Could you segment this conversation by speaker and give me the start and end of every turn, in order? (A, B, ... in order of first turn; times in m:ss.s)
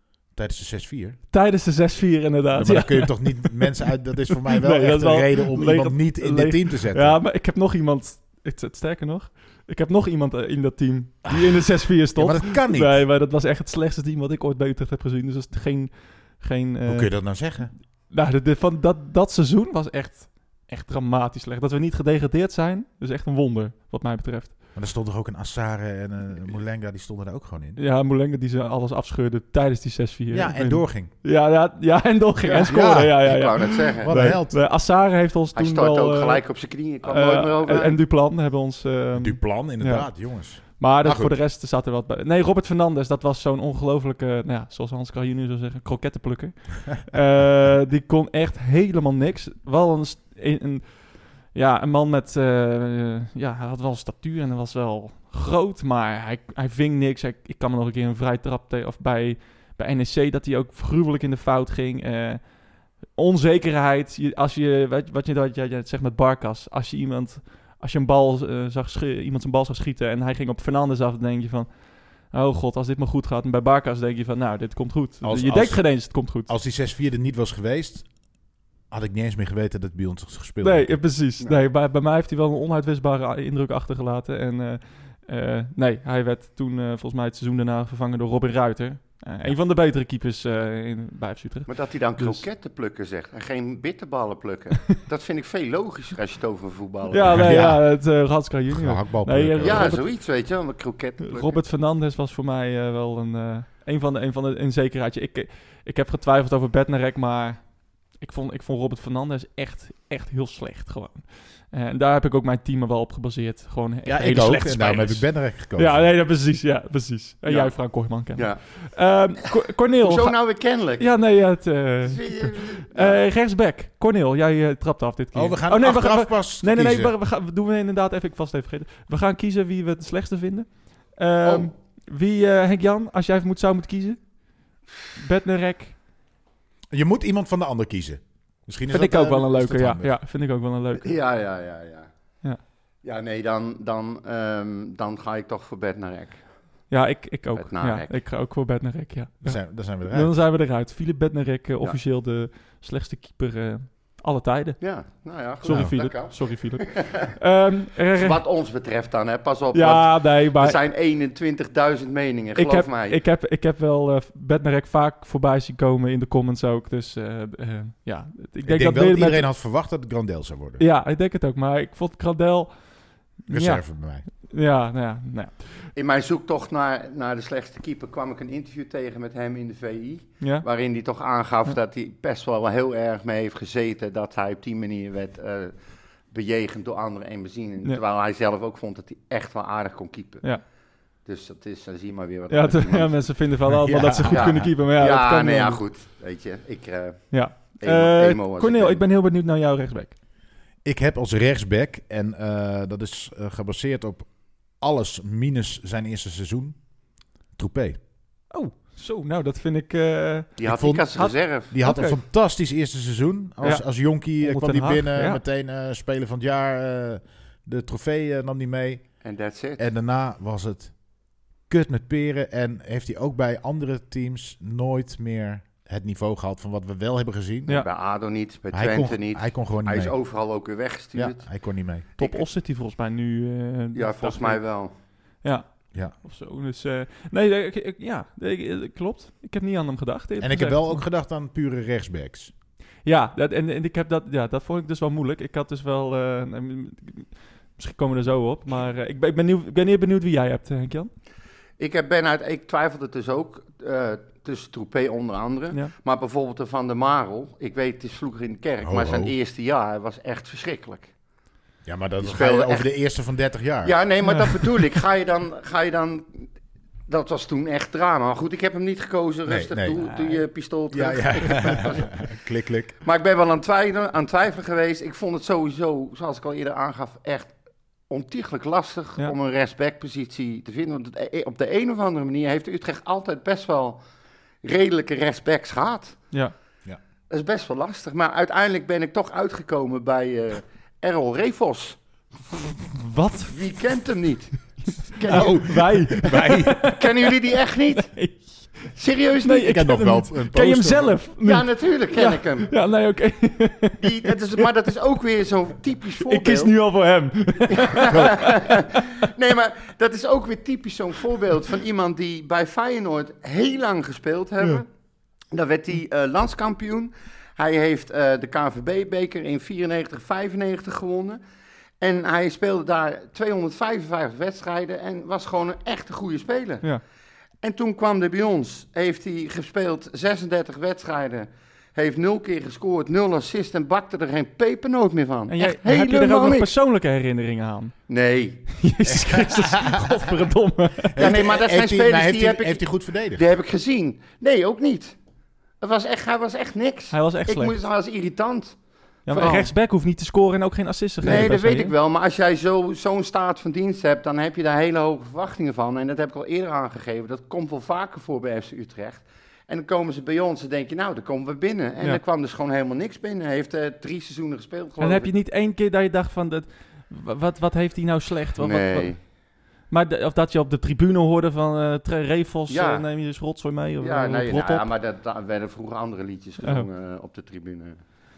0:00.3-0:01.2 A
0:01.3-0:24.6 B
0:02.5-0:07.2 A
0:11.3-0:13.0 A
0:16.9-0:17.7 A
0:24.8-0:27.8 A
0:27.8-1:16.5 B
0:30.3-0:31.1 A
0:32.4-0:34.2 C
0:32.6-0:33.3 A
0:34.0-0:34.6 A
0:35.6-0:38.0 C
0:39.2-0:41.4 A
1:15.2-1:18.1 A
1:18.9-1:21.0 A
1:20.6-1:32.4 B
1:31.7-1:37.4 C
1:37.1-1:40.1 B
1:37.2-1:38.0 A
1:38.7-1:39.9 A
1:39.6-1:41.6 C
1:41.2-2:16.0 B
1:54.1-1:56.1 A
1:57.5-1:57.8 C
1:58.3-1:58.6 C
2:00.0-2:01.1 C
2:02.0-2:03.2 C
2:05.3-2:07.1 A
2:11.4-2:11.7 C
2:16.9-2:20.2 A
2:18.9-2:21.2 B
2:21.0-2:22.1 C
2:23.0-2:26.4 C
2:26.9-2:38.4 B
2:27.6-2:28.1 C
2:29.4-2:30.3 A
2:34.8-2:37.3 C
2:35.7-2:35.9 A
2:38.2-2:43.2 C
2:39.7-2:40.8 B
2:42.6-2:49.5 B
2:48.6-2:50.8 A
2:50.8-2:55.9 B
2:53.5-2:54.3 A
2:56.0-3:05.8 C
3:06.3-3:10.5 C
3:11.2-3:13.2 C
3:12.5-3:15.8 B
3:13.7-3:14.7 A
3:14.3-3:19.0 C
3:17.3-3:20.2 B
3:20.8-3:26.9 A
3:27.5-3:28.0 A
3:28.5-3:32.2 B
3:30.6-3:31.7 C
3:30.6-3:39.1 A
3:33.6-3:35.4 B
3:39.2-3:39.9 C
3:39.8-3:41.0 A
3:41.7-3:47.8 A
3:47.7-3:51.5 C
3:48.7-3:50.1 A
3:51.2-3:52.1 A
3:52.2-3:52.4 C
3:52.2-3:54.7 B
3:53.9-3:54.9 C
3:55.4-4:01.0 B
4:00.4-4:02.5 A
4:03.0-4:11.1 B
4:11.8-4:21.1 C
4:18.8-4:19.3 A
4:21.8-4:24.0 A
4:22.2-4:22.9 C
4:23.8-4:26.5 C
4:24.3-4:24.6 B
4:27.1-4:32.2 C
4:29.5-4:30.1 A
4:30.9-4:33.0 A
4:33.0-4:37.6 C
4:38.1-4:44.0 C
4:44.6-4:46.2 C
4:47.3-4:52.0 C
4:52.9-4:53.6 B
4:53.5-4:55.6 C
4:55.3-4:57.3 B
4:55.3-4:56.9 A
4:56.8-4:58.1 C
4:58.0-5:04.7 B
4:58.9-4:59.8 C
4:59.6-5:01.2 A
5:01.4-5:02.7 C
5:04.0-5:06.7 C
5:06.2-5:09.0 B
5:07.7-5:14.9 C
5:15.5-5:21.4 C
5:22.0-5:26.8 C
5:27.6-5:36.7 C
5:35.5-5:38.0 B
5:38.1-5:38.7 C
5:38.7-5:41.3 B
5:39.1-5:40.2 A
5:41.1-5:43.4 A
5:41.2-5:45.2 C
5:45.8-5:49.7 C
5:47.1-5:47.8 B
5:49.3-5:51.9 B
5:51.2-6:05.3 C
5:51.2-5:51.6 A
6:05.0-6:09.3 B
6:08.6-6:09.2 C
6:09.9-6:14.9 B
6:12.7-6:13.0 C
6:14.0-6:18.0 C